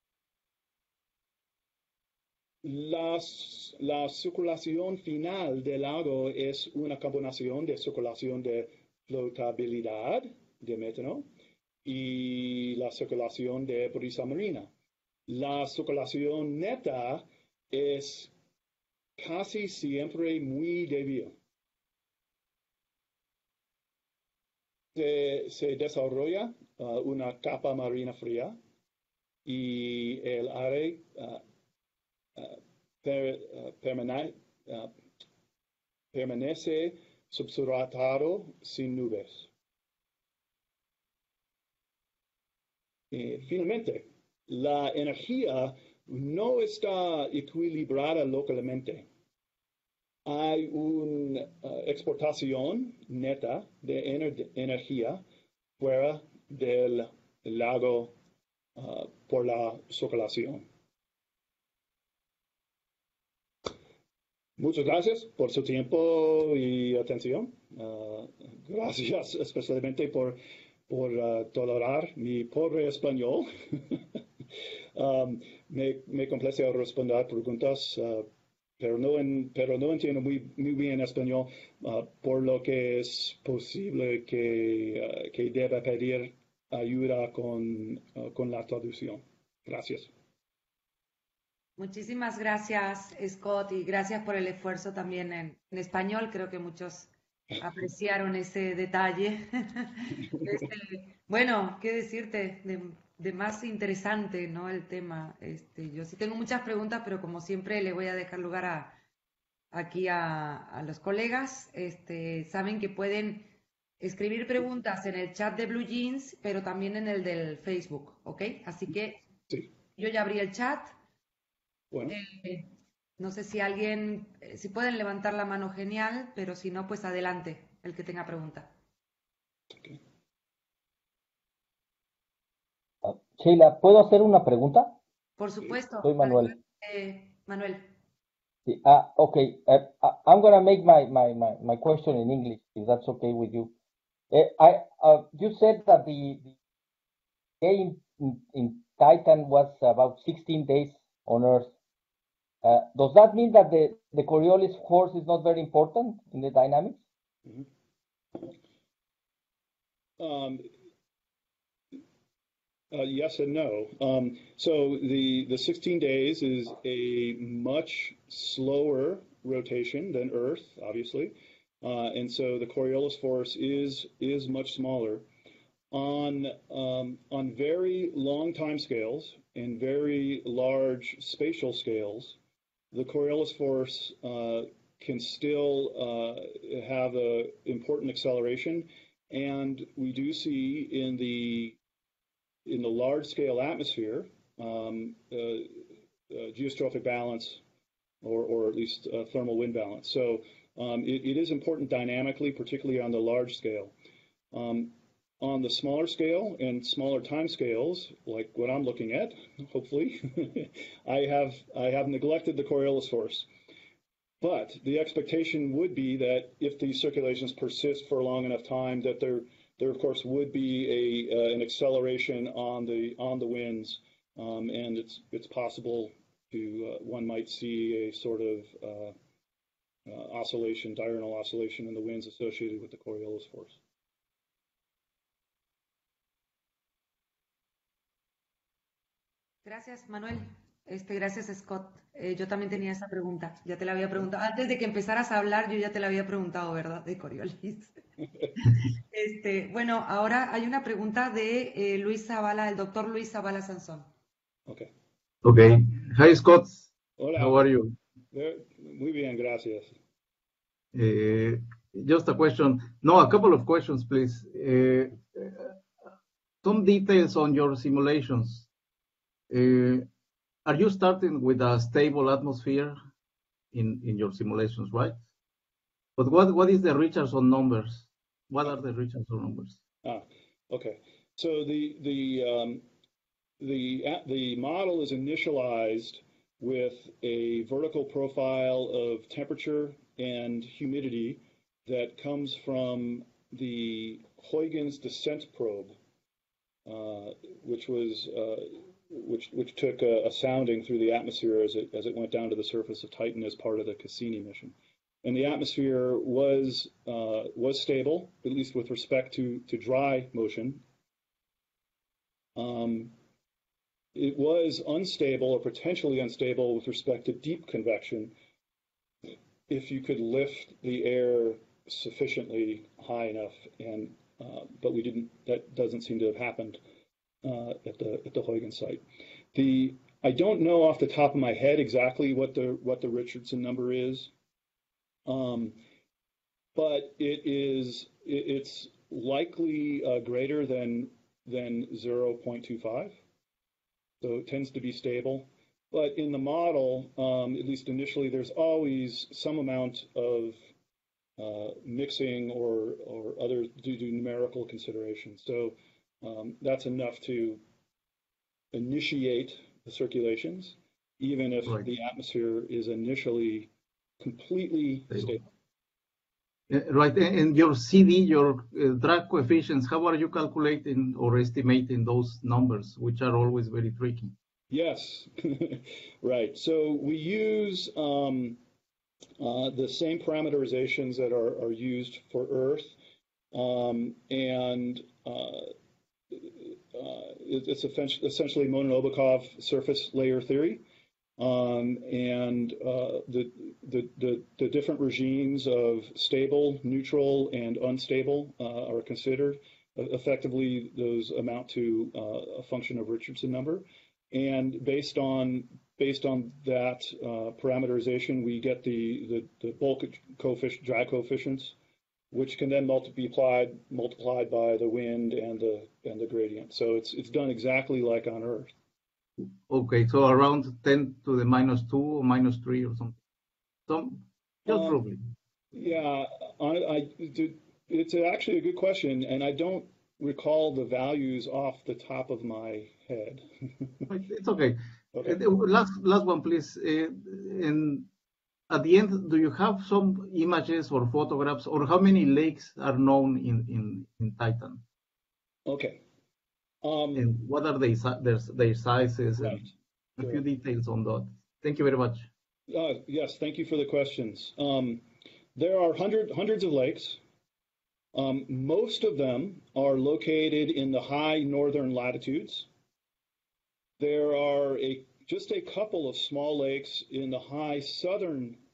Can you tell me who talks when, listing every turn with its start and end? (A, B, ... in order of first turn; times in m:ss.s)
0:02.6-0:11.3 A
0:11.8-0:14.7 A
0:15.3-0:18.3 A
0:19.2-0:21.3 A
0:25.0-0:28.6 A
0:29.5-0:31.4 A
0:32.4-0:34.9 A
0:36.1-0:39.5 A
0:43.1-0:49.1 A
0:50.3-0:55.2 A
0:55.8-0:58.1 A
0:58.8-1:00.6 A
1:04.6-1:14.0 A
1:15.0-1:18.3 A
1:18.8-1:30.1 A
1:31.8-1:49.0 B
1:49.7-1:59.2 B
2:00.0-2:00.9 B
2:02.1-2:08.7 B
2:13.0-2:15.0 C
2:15.4-2:17.9 B
2:16.0-2:16.6 C
2:18.7-2:23.7 C
2:24.3-2:26.5 C
2:27.6-2:31.7 C
2:32.6-2:37.0 C
2:40.2-2:40.7 A
2:42.9-2:55.3 A
2:55.9-3:02.4 A
3:02.9-3:11.8 A
3:12.7-3:17.6 A
3:18.2-3:23.9 A
3:24.5-3:33.5 A
3:34.4-3:49.2 A
3:50.1-3:53.8 A
3:59.6-4:08.0 B
4:09.1-4:14.1 B
4:15.4-4:16.9 D
4:17.2-4:17.7 A
4:17.4-4:18.0 D
4:18.3-4:20.0 A
4:20.9-4:25.8 D
4:26.6-4:28.7 D
4:29.5-4:30.1 D
4:30.7-4:33.0 D
4:33.7-4:35.2 D
4:36.2-4:39.8 D
4:40.0-4:42.8 A
4:43.6-4:56.0 A
4:56.9-5:10.8 A
5:12.6-5:13.1 A
5:14.2-5:18.3 A
5:19.7-5:26.8 A
5:27.4-5:29.0 A
5:29.5-5:34.3 A
5:35.3-5:35.8 A
5:36.8-5:43.2 A
5:44.2-5:50.6 A
5:51.4-5:57.6 A
5:58.7-6:03.7 A
6:04.2-6:05.4 A
6:06.7-6:14.3 D
6:14.7-6:18.6 A
6:19.4-6:23.0 A
6:23.5-6:25.7 A
6:26.3-6:30.8 A
6:31.4-6:51.8 A
6:52.3-6:58.7 A
6:59.4-7:03.2 D
7:03.9-7:05.2 D
7:04.7-7:05.0 A
7:05.7-7:13.4 A
7:14.1-7:18.1 D
7:15.1-7:15.4 A
7:18.7-7:24.8 D
7:25.7-7:26.0 A
7:26.8-7:27.3 A
7:27.2-7:29.7 D
7:29.4-7:30.4 A
7:30.2-7:32.3 D
7:32.7-7:35.0 A
7:35.6-7:37.2 A
7:38.1-7:42.7 A
7:44.0-7:48.6 A